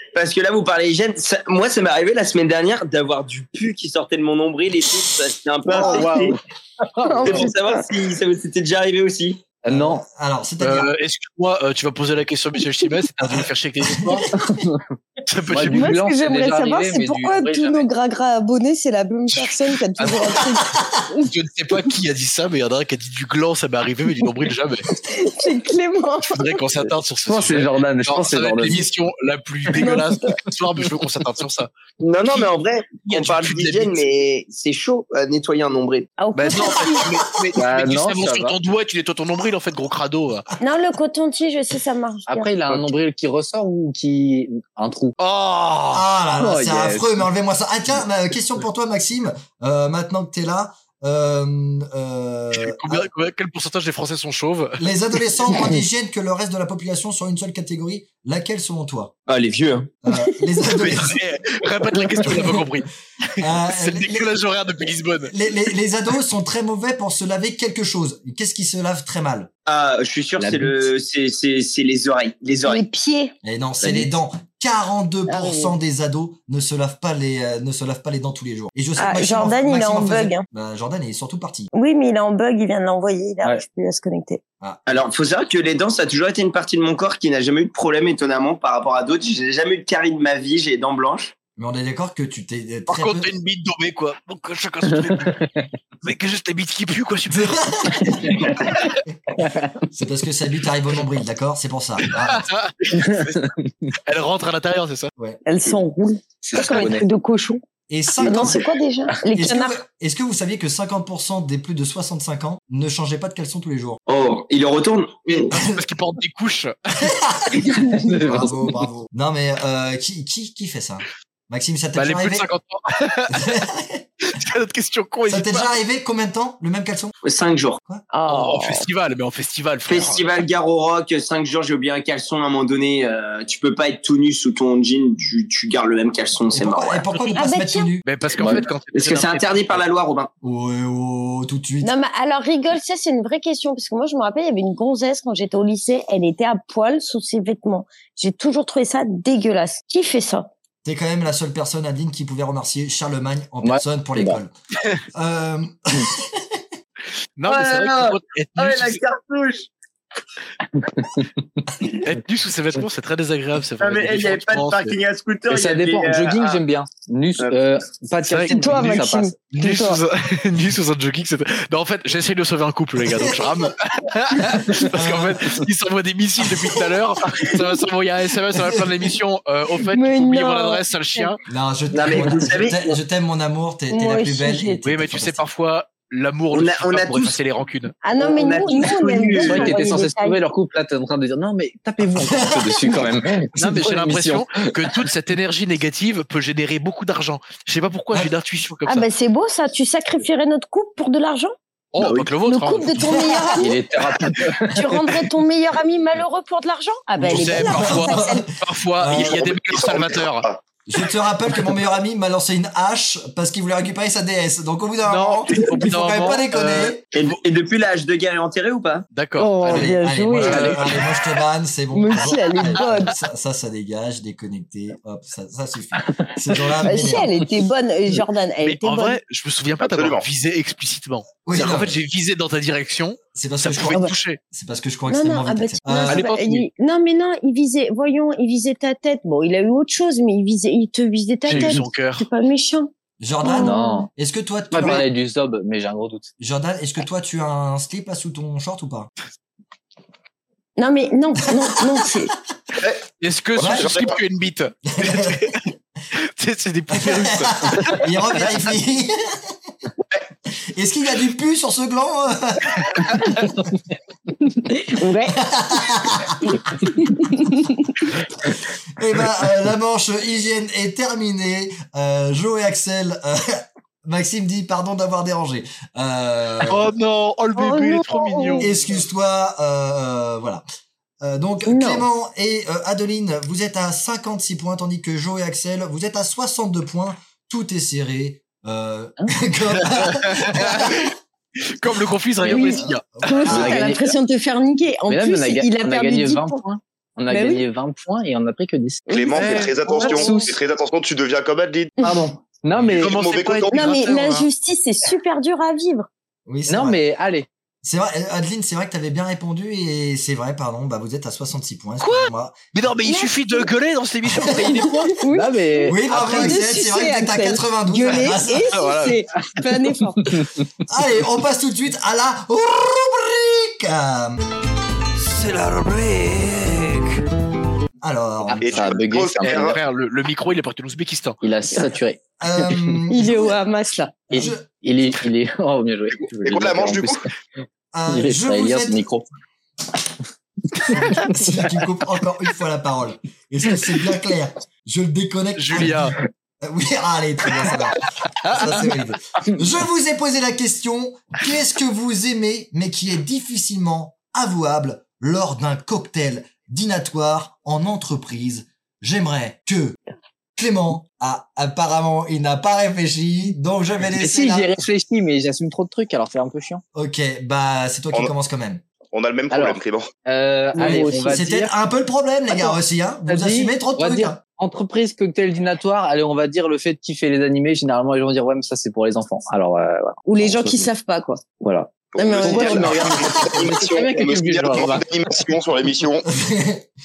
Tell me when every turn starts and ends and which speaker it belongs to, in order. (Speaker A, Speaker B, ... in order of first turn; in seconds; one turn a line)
Speaker A: 0.1-6.3
Speaker B: 5.7-6.1
Speaker C: 5.8-6.4
Speaker C: 6.9-7.5
Speaker B: 7.0-7.8
Speaker A: 7.2-9.5
Speaker C: 9.6-10.0
Speaker D: 9.7-10.9
Speaker E: 10.6-14.3
Speaker D: 13.2-14.6
Speaker C: 14.3-14.9
Speaker E: 15.2-16.0
Speaker C: 15.5-17.9
Speaker B: 15.7-21.3
Speaker E: 19.3-20.4
Speaker E: 21.2-24.9
Speaker B: 25.1-26.8
Speaker E: 26.3-31.7
Speaker C: 27.2-28.9
Speaker B: 29.8-30.4
Speaker A: 32.0-36.1
Speaker E: 32.3-34.0
Speaker B: 36.2-37.1
Speaker E: 36.3-40.5
Speaker C: 37.5-38.5
Speaker B: 40.6-42.5
Speaker C: 42.3-45.1
Speaker E: 45.2-46.1
Speaker D: 45.9-53.1
Speaker C: 46.4-47.2
Speaker E: 52.5-54.8
Speaker D: 54.8-59.1
Speaker A: 59.3-59.9
Speaker D: 60.0-61.2
Speaker E: 60.7-65.3
Speaker D: 62.3-62.6
Speaker D: 63.4-64.4
Speaker D: 65.3-69.5
Speaker A: 69.7-72.8
Speaker C: 70.4-70.9
Speaker B: 72.6-73.3
Speaker D: 73.4-81.7
Speaker B: 75.3-75.8
Speaker B: 79.0-80.4
Speaker B: 81.7-84.4
Speaker D: 84.6-84.8
Speaker A: 84.9-91.3
Speaker D: 91.6-93.3
Speaker E: 92.9-95.5
Speaker C: 94.9-95.7
Speaker E: 96.0-98.9
Speaker D: 97.3-98.3
Speaker C: 99.4-99.8
Speaker D: 99.9-102.5
Speaker E: 102.0-103.4
Speaker C: 102.9-103.9
Speaker E: 104.0-105.1
Speaker B: 105.5-107.6
Speaker C: 106.4-107.0
Speaker D: 107.9-108.6
Speaker B: 108.2-109.8
Speaker D: 109.3-114.0
Speaker A: 114.1-115.5
Speaker E: 115.5-117.1
Speaker D: 117.0-117.7
Speaker B: 117.7-118.2
Speaker C: 117.7-118.7
Speaker D: 118.2-122.5
Speaker E: 122.0-123.6
Speaker D: 123.3-124.0
Speaker E: 124.2-125.7
Speaker D: 125.3-127.1
Speaker A: 127.2-127.8
Speaker B: 128.1-128.8
Speaker E: 128.3-130.2
Speaker A: 129.9-137.0
Speaker D: 136.5-138.0
Speaker B: 137.3-137.9
Speaker E: 138.0-139.8
Speaker C: 138.4-138.7
Speaker A: 138.9-140.3
Speaker D: 140.4-141.9
Speaker B: 141.8-150.5
Speaker D: 150.8-154.5
Speaker C: 153.6-154.4
Speaker D: 155.1-156.4
Speaker E: 157.4-159.0
Speaker A: 157.4-159.7
Speaker C: 160.7-161.6
Speaker E: 161.9-164.9
Speaker A: 163.8-166.6
Speaker C: 165.5-169.3
Speaker E: 168.2-181.4
Speaker B: 168.5-170.0
Speaker D: 173.0-173.6
Speaker D: 174.7-175.6
Speaker D: 176.5-176.9
Speaker D: 178.5-178.9
Speaker B: 179.9-181.3
Speaker D: 181.5-185.4
Speaker A: 181.9-183.0
Speaker B: 183.9-184.8
Speaker E: 184.8-188.0
Speaker A: 186.5-187.3
Speaker B: 188.0-190.4
Speaker A: 188.2-189.9
Speaker C: 189.3-195.1
Speaker D: 192.1-193.1
Speaker E: 193.6-199.1
Speaker B: 198.8-201.5
Speaker E: 201.9-203.2
Speaker B: 202.4-203.8
Speaker D: 203.0-203.5
Speaker C: 203.6-205.0
Speaker B: 204.7-208.4
Speaker D: 207.2-209.5
Speaker E: 207.2-210.5
Speaker F: 209.2-210.6
Speaker D: 210.8-217.0
Speaker E: 215.1-217.4
Speaker A: 217.1-219.1
Speaker E: 219.1-221.0
Speaker B: 219.4-220.9
Speaker D: 219.6-227.3
Speaker B: 221.9-223.1
Speaker C: 226.2-227.2
Speaker B: 226.8-229.2
Speaker E: 228.6-234.4
Speaker F: 229.8-230.2
Speaker D: 231.4-232.0
Speaker D: 233.3-236.2
Speaker B: 233.9-234.1
Speaker B: 235.1-242.9
Speaker E: 236.1-236.7
Speaker E: 241.5-242.2
Speaker C: 241.5-241.8
Speaker D: 243.2-245.1
Speaker B: 243.4-244.1
Speaker C: 243.6-244.1
Speaker C: 244.7-246.3
Speaker D: 246.4-249.1
Speaker B: 250.8-252.3
Speaker E: 253.2-258.6
Speaker D: 253.6-253.9
Speaker F: 253.6-254.2
Speaker D: 254.9-255.5
Speaker D: 256.9-259.5
Speaker D: 260.7-263.2
Speaker B: 264.5-265.5
Speaker D: 265.4-266.6
Speaker B: 266.8-267.9
Speaker D: 268.4-276.9
Speaker E: 276.6-278.8
Speaker B: 277.6-278.7
Speaker D: 278.6-280.6
Speaker D: 281.2-291.1
Speaker B: 281.6-282.1
Speaker E: 289.9-291.1
Speaker E: 291.6-293.5
Speaker C: 292.4-292.8
Speaker B: 292.5-296.6
Speaker D: 292.8-293.8
Speaker C: 293.5-294.1
Speaker C: 295.1-300.6
Speaker B: 297.3-297.6
Speaker B: 299.1-300.4
Speaker F: 299.1-302.0
Speaker E: 299.3-299.8
Speaker C: 302.0-303.2
Speaker E: 302.8-304.5
Speaker F: 303.0-303.9
Speaker B: 303.7-306.1
Speaker D: 306.4-307.0
Speaker C: 306.7-307.5
Speaker D: 307.8-312.6
Speaker E: 312.0-315.2
Speaker B: 313.0-313.7
Speaker D: 314.4-314.7
Speaker B: 314.7-320.3
Speaker C: 315.2-316.6
Speaker D: 315.9-318.8
Speaker E: 318.7-319.2
Speaker C: 320.2-320.6
Speaker D: 320.9-324.4
Speaker E: 325.2-327.2
Speaker D: 328.0-329.0
Speaker C: 328.4-329.8
Speaker F: 328.6-329.8
Speaker E: 329.4-331.4
Speaker C: 331.4-333.0
Speaker D: 332.4-333.6
Speaker B: 333.1-334.5
Speaker C: 334.3-337.3
Speaker D: 334.3-334.6
Speaker F: 336.1-337.2
Speaker D: 337.9-339.1
Speaker C: 338.1-339.2
Speaker C: 340.7-341.8
Speaker D: 340.9-360.0
Speaker E: 345.6-346.2
Speaker C: 348.5-348.8
Speaker D: 360.6-364.7
Speaker C: 364.1-366.8
Speaker D: 366.9-368.8
Speaker F: 369.1-370.1
Speaker C: 369.5-371.7
Speaker B: 370.7-371.4
Speaker D: 370.8-374.4
Speaker C: 373.3-380.9
Speaker B: 380.2-381.4
Speaker C: 381.6-385.1
Speaker F: 382.1-386.3
Speaker B: 382.1-383.3
Speaker D: 386.3-386.9